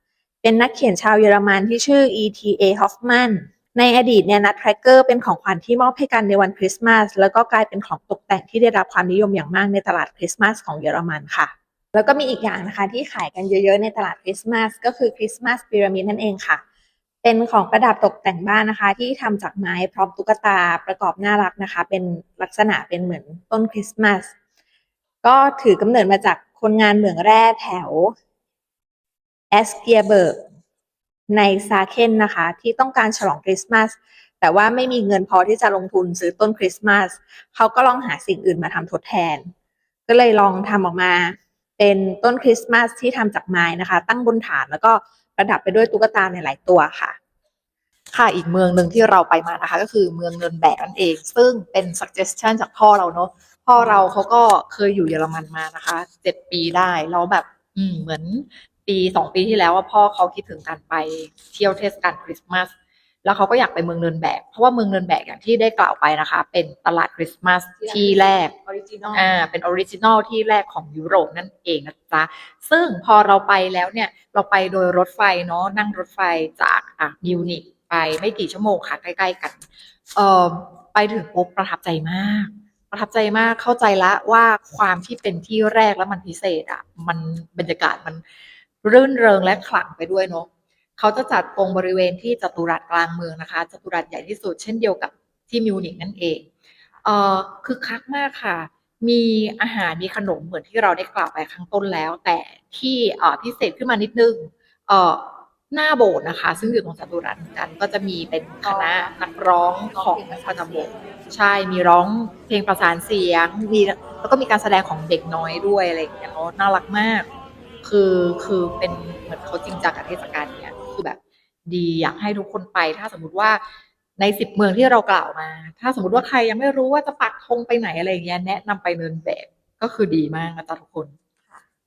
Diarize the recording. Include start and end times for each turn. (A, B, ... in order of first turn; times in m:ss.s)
0:00.4-0:16.6 A
0:17.2-0:24.3 A
0:25.2-0:28.1 A
0:29.5-0:30.4 A
0:31.3-0:39.4 A
0:40.1-0:47.2 A
0:48.1-1:02.7 B
0:53.8-0:54.0 A
1:03.2-1:08.5 B
1:07.8-1:09.3 A
1:09.1-1:19.6 B
1:20.1-1:28.2 B
1:28.8-1:36.5 B
1:37.0-1:57.3 B
1:48.6-1:49.2 A
1:49.9-1:51.0 A
1:57.8-2:03.6 B
2:04.2-2:11.2 B